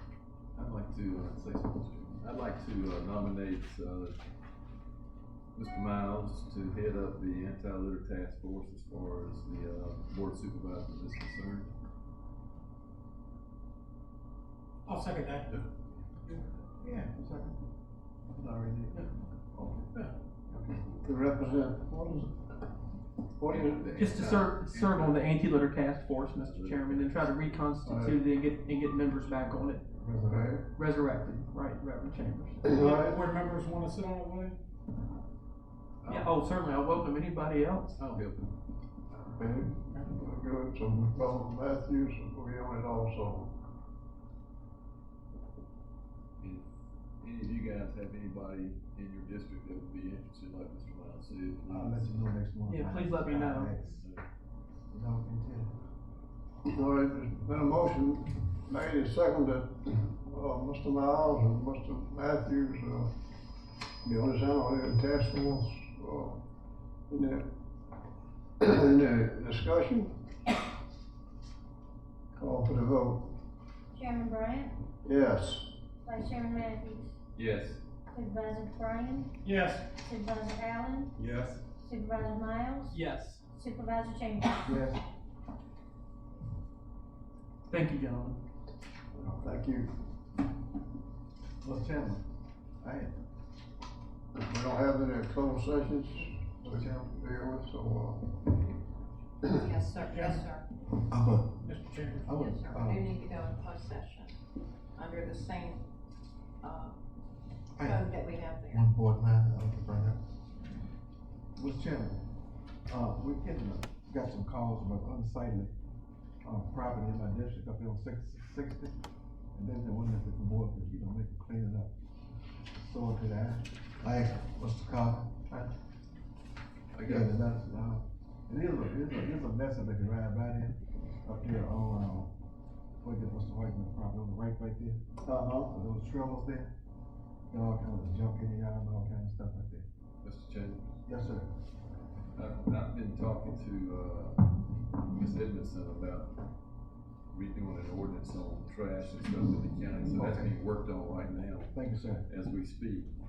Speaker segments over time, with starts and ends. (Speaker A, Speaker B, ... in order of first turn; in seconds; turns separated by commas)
Speaker A: 0.5-4.2, Speaker A: 5.5-11.7, Speaker B: 14.8-15.5, Speaker C: 16.3-17.6, Speaker C: 18.3-19.9, Speaker C: 20.5-20.8, Speaker D: 21.0-22.4, Speaker D: 23.4-24.4, Speaker A: 23.5-25.4, Speaker E: 23.9-29.8, Speaker A: 26.1-27.6, Speaker D: 27.8-28.2, Speaker C: 29.9-30.5, Speaker D: 30.2-30.6, Speaker E: 30.7-32.6, Speaker D: 32.6-33.2, Speaker B: 32.8-34.6, Speaker A: 36.0-36.3, Speaker E: 36.1-38.0, Speaker A: 38.0-38.5, Speaker D: 39.2-43.5, Speaker A: 46.4-52.1, Speaker C: 51.7-54.0, Speaker E: 52.7-53.7, Speaker A: 53.8-54.2, Speaker C: 54.9-55.7, Speaker D: 56.6-63.1, Speaker D: 64.0-66.4, Speaker D: 67.1-67.5, Speaker D: 68.6-70.1, Speaker D: 72.3-73.3, Speaker F: 73.9-74.7, Speaker D: 75.0-75.7, Speaker F: 76.0-77.0, Speaker A: 77.3-77.8, Speaker F: 78.1-79.3, Speaker B: 79.4-79.9, Speaker F: 79.9-81.1, Speaker A: 81.2-81.6, Speaker F: 81.8-83.0, Speaker E: 82.9-83.4, Speaker F: 83.5-84.6, Speaker C: 84.6-85.0, Speaker E: 87.7-88.4, Speaker D: 89.2-89.9, Speaker C: 91.6-92.2, Speaker C: 92.8-93.1, Speaker D: 94.4-98.4, Speaker C: 96.6-97.0, Speaker G: 99.5-100.6, Speaker B: 100.0-100.3, Speaker C: 101.1-101.6, Speaker B: 101.6-102.3, Speaker C: 102.2-103.1, Speaker G: 102.3-104.3, Speaker G: 104.9-105.8, Speaker G: 106.6-107.0, Speaker C: 107.8-108.0, Speaker G: 107.8-108.8, Speaker C: 108.7-110.2, Speaker C: 111.5-112.2, Speaker C: 112.9-115.7, Speaker C: 116.4-119.0, Speaker C: 119.5-121.9, Speaker C: 122.8-125.7, Speaker A: 126.9-127.4, Speaker C: 127.0-132.3, Speaker C: 133.0-136.7, Speaker D: 135.2-135.7, Speaker C: 137.5-139.8, Speaker A: 140.2-140.9, Speaker C: 141.1-141.5, Speaker A: 142.3-146.4, Speaker A: 147.3-153.1, Speaker C: 150.2-150.5, Speaker C: 151.7-152.2